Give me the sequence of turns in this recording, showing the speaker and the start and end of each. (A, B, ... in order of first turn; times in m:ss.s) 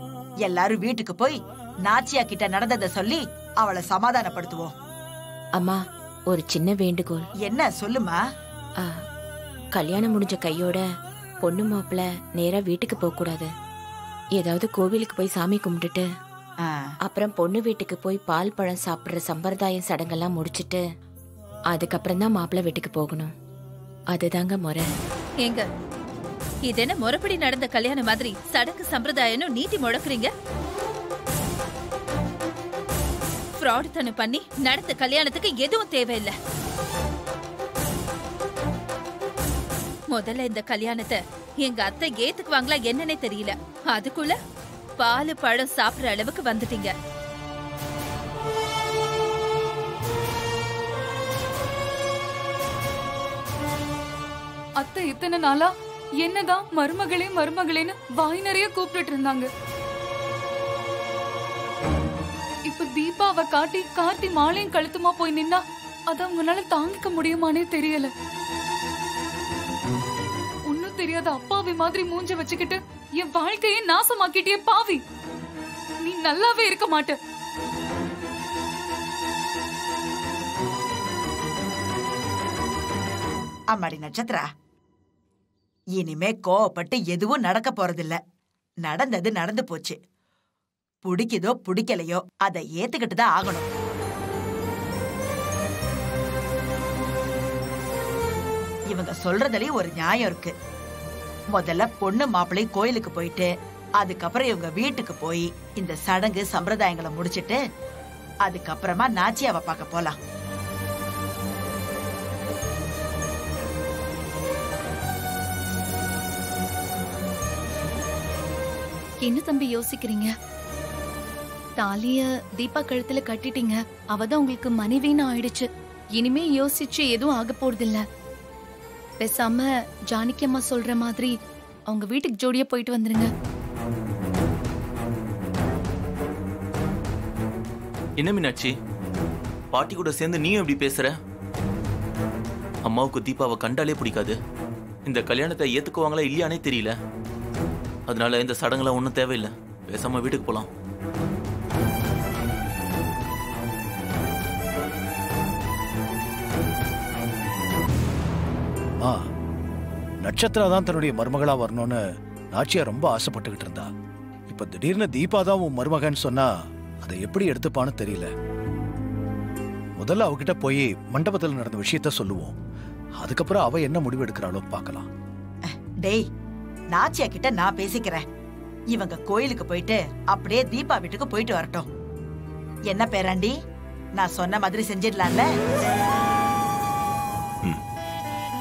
0:00.4-0:04.7 A
0:05.6-0:07.3 B
0:07.4-0:08.2 A
0:09.8-0:10.8 B
0:11.4-0:13.5 B
0:14.4-0:16.1 B
0:17.0-0:20.8 B
0:21.7-0:23.3 B
0:24.1-0:24.9 B
0:26.7-0:30.3 C
0:33.6-0:36.3 C
0:40.1-0:44.4 C
0:45.0-0:46.9 C
0:54.8-0:59.5 D
1:02.7-1:08.1 D
1:10.7-1:15.0 D
1:16.0-1:17.2 D
1:23.7-1:24.5 A
1:26.0-1:28.2 A
1:28.8-1:30.0 A
1:31.0-1:33.7 A
1:38.9-1:40.5 A
1:41.5-1:47.6 A
1:48.4-1:50.2 A
1:59.2-2:00.3 E
2:01.8-2:08.0 E
2:09.2-2:11.3 E
2:11.9-2:13.3 E
2:18.2-2:18.7 F
2:19.7-2:21.2 F
2:22.8-2:24.4 F
2:25.1-2:27.0 F
2:28.1-2:30.7 F
2:40.2-2:42.0 G
2:42.5-2:43.9 G
2:44.5-2:46.5 G
2:47.0-2:48.3 G
2:50.0-2:52.6 G
2:53.2-2:55.1 G
2:56.9-2:58.2 A
2:58.9-3:01.9 A
3:02.9-3:03.5 A
3:04.2-3:05.5 A